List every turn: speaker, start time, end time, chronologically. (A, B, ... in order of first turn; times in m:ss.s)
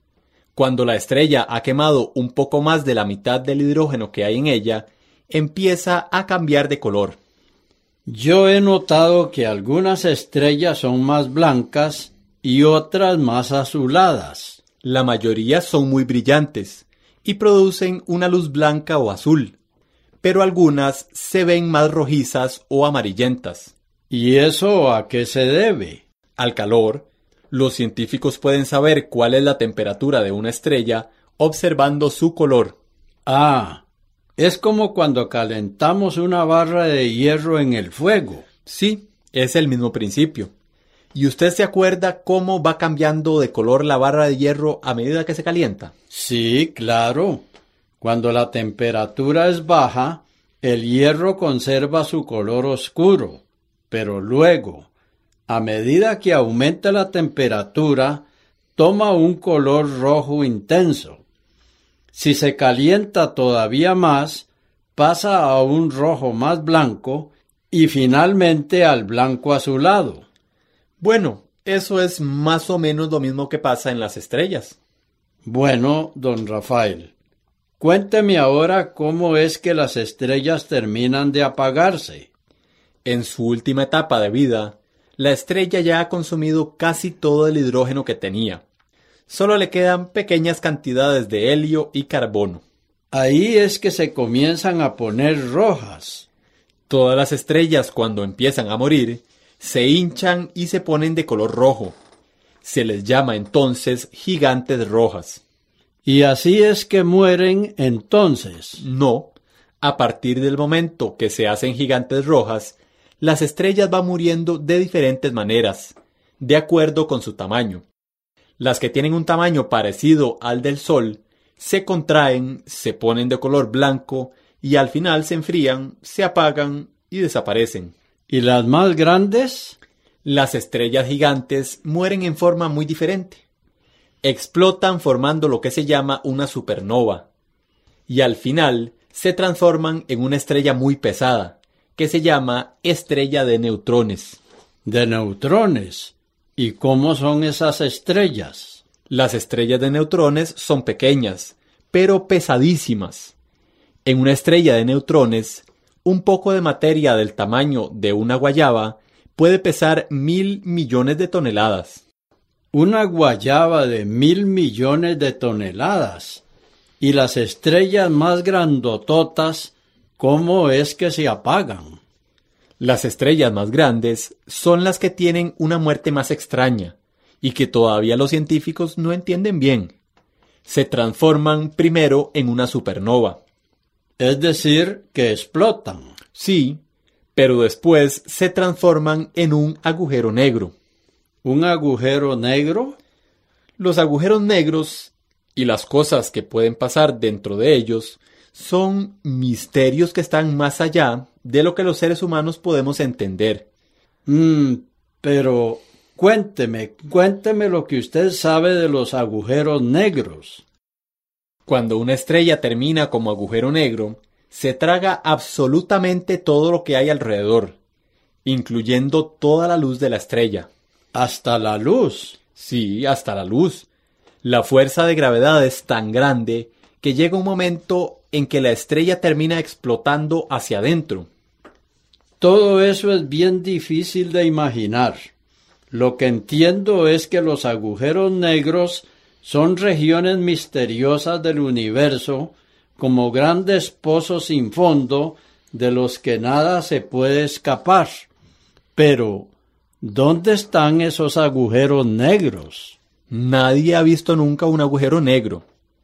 0:00.6-0:07.2 A
0:08.0-0:14.6 B
0:14.8-0:19.6 A
0:20.2-0:23.7 A
0:24.1-0:26.0 B
0:26.4-0:32.8 A
0:33.2-0:33.8 B
0:34.4-0:38.5 B
0:38.6-0:40.5 A
0:41.1-0:45.9 A
0:46.1-0:47.5 B
0:48.0-0:54.9 B
0:55.5-0:58.2 B
0:58.8-1:01.2 B
1:02.1-1:10.2 B
1:11.0-1:14.8 A
1:15.4-1:17.1 B
1:17.8-1:22.3 B
1:23.0-1:28.6 A
1:29.3-1:32.6 A
1:33.1-1:36.3 B
1:36.9-1:42.0 A
1:42.6-1:45.4 A
1:46.0-1:48.8 B
1:48.8-1:57.8 A
1:58.6-2:07.9 A
2:08.3-2:09.8 B
2:10.2-2:13.4 A
2:14.2-2:17.2 A
2:18.1-2:24.4 A
2:24.8-2:28.8 B
2:29.1-2:33.3 A
2:34.0-2:42.0 A
2:42.7-2:46.4 B
2:47.0-2:52.0 B
2:52.8-2:59.9 A
3:00.6-3:03.4 A
3:04.2-3:06.1 B
3:06.3-3:06.8 A
3:07.3-3:10.7 A
3:11.4-3:13.0 B
3:13.8-3:23.6 A
3:24.2-3:30.6 B
3:31.6-3:37.8 A
3:38.4-3:40.7 A
3:41.1-3:42.4 B
3:42.6-3:43.9 A
3:44.4-3:51.3 A
3:52.4-3:55.3 B
3:55.9-4:08.3 B
4:09.0-4:13.0 B
4:13.3-4:15.6 A